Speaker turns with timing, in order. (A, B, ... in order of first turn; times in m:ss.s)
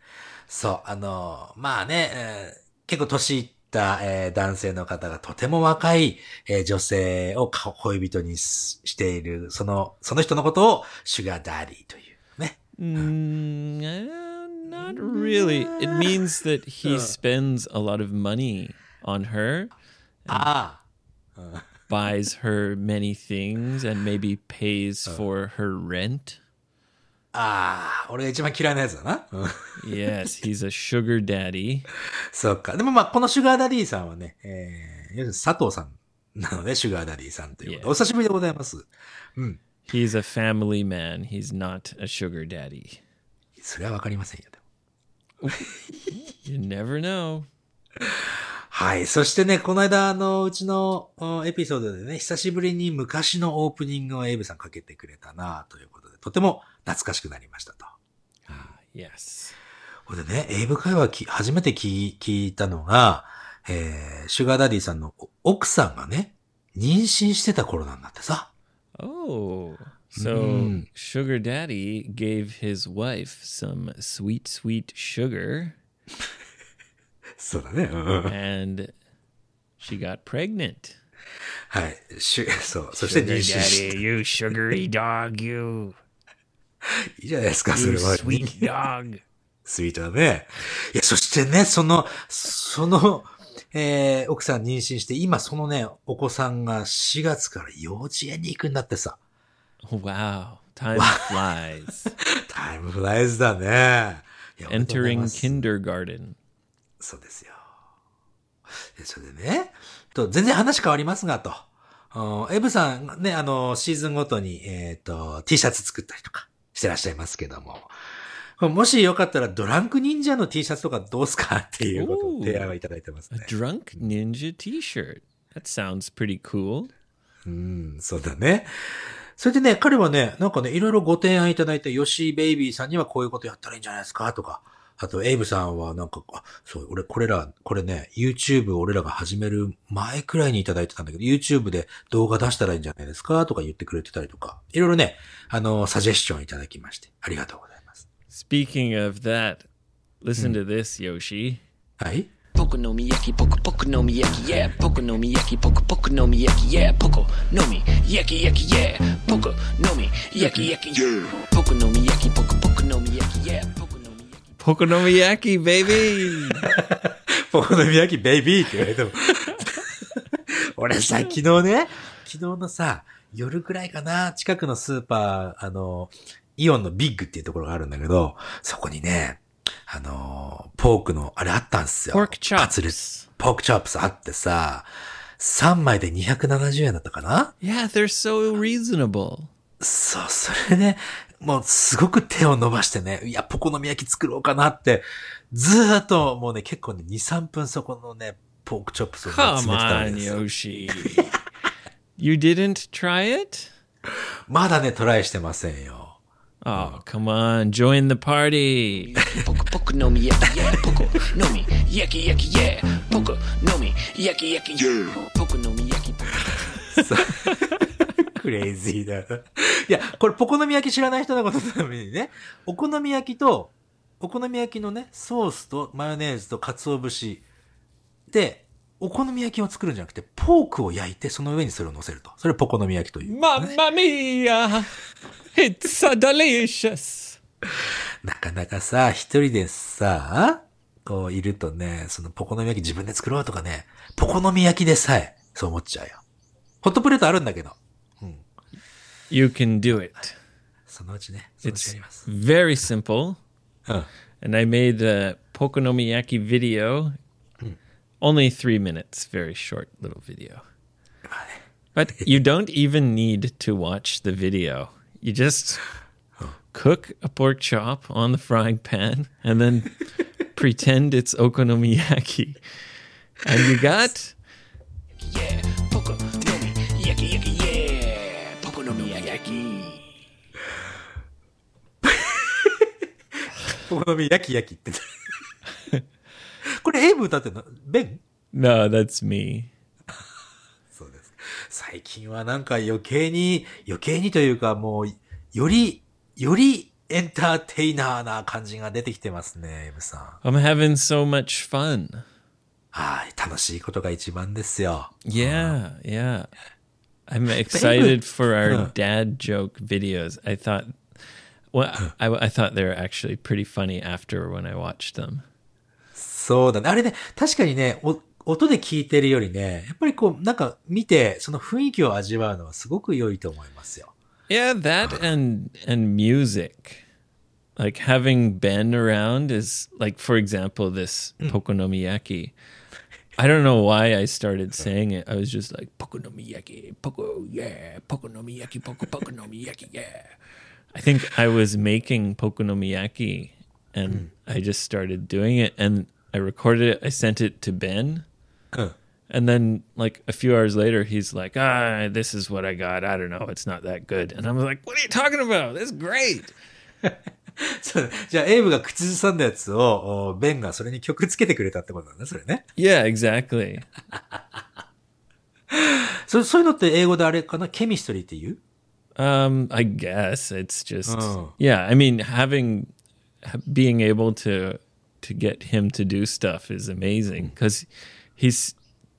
0:00.5-0:13.1 A
0:12.8-0:19.7 B
0:14.7-0:16.2 A
0:16.8-0:17.1 A
0:20.2-0:20.5 B
0:20.3-0:20.8 A
0:21.4-0:21.7 A
0:21.9-0:26.4 B
0:27.3-0:30.3 A
0:29.8-0:31.9 B
0:32.3-0:39.6 A
0:37.6-0:38.0 B
0:39.9-0:43.0 B
0:43.6-0:44.6 A
0:45.4-0:45.7 B
0:46.4-0:47.5 B
0:48.0-0:58.0 A
0:58.5-0:59.6 B
1:00.1-1:08.5 A
1:09.0-1:15.8 B
1:10.2-1:10.9 A
1:17.4-1:18.4 A
1:18.3-1:18.9 B
1:19.8-1:21.0 B
1:21.7-1:24.0 A
1:22.9-1:26.0 B
1:26.8-1:28.6 A
1:27.7-1:29.2 B
1:29.6-1:39.2 A
1:39.8-1:42.1 B
1:41.0-1:41.4 A
1:42.1-1:45.6 A
1:44.7-1:46.4 B
1:47.0-1:47.7 A
1:48.7-1:57.9 A
1:58.6-2:04.1 A
2:01.9-2:02.7 B
2:03.3-2:06.9 B
2:07.4-2:28.0 A
2:28.3-2:29.7 B
2:30.2-2:31.6 B
2:32.0-2:32.3 A
2:32.6-2:44.5 C
2:40.4-2:40.7 B
2:44.6-2:46.7 B
2:46.7-3:07.5 A
3:02.1-3:03.3 B
3:07.6-3:09.5 B
3:09.8-3:20.4 A
3:19.2-3:21.3 B
3:22.2-3:23.7 B
3:24.5-3:26.2 A
3:26.6-3:29.1 B
3:29.0-3:36.9 C
3:36.9-3:47.4 A
3:37.0-3:37.8 B
3:48.3-3:53.8 A
3:53.2-3:54.9 B
3:55.5-3:57.4 B
3:58.2-4:06.2 A
4:06.8-4:08.4 A
4:09.3-4:10.4 B
4:10.9-4:12.2 A
4:11.6-4:13.4 B
4:14.4-4:17.2 B
4:18.2-4:20.6 B
4:21.2-4:21.6 A
4:22.0-4:25.9 B
4:26.7-4:32.6 B
4:33.4-4:34.4 B
4:35.2-4:40.0 C
4:38.9-4:39.6 B
4:42.0-4:42.9 A
4:43.7-4:45.1 A
4:46.6-4:48.2 A
4:48.5-4:49.7 B
4:50.9-5:00.4 A
5:00.4-5:02.2 B
5:02.9-5:05.8 A
5:05.3-5:06.5 B
5:07.3-5:11.0 B
5:07.7-5:08.9 A
5:11.7-5:15.4 B
5:16.2-5:24.1 A
5:24.5-5:27.0 B
5:27.8-5:32.5 B
5:33.4-5:40.4 B
5:40.9-5:48.3 B
5:49.3-5:56.5 B
5:57.0-6:02.6 A
6:02.8-6:03.9 B
6:05.7-6:08.6 A
6:09.2-6:12.9 B
6:11.1-6:11.6 A
6:13.4-6:18.8 B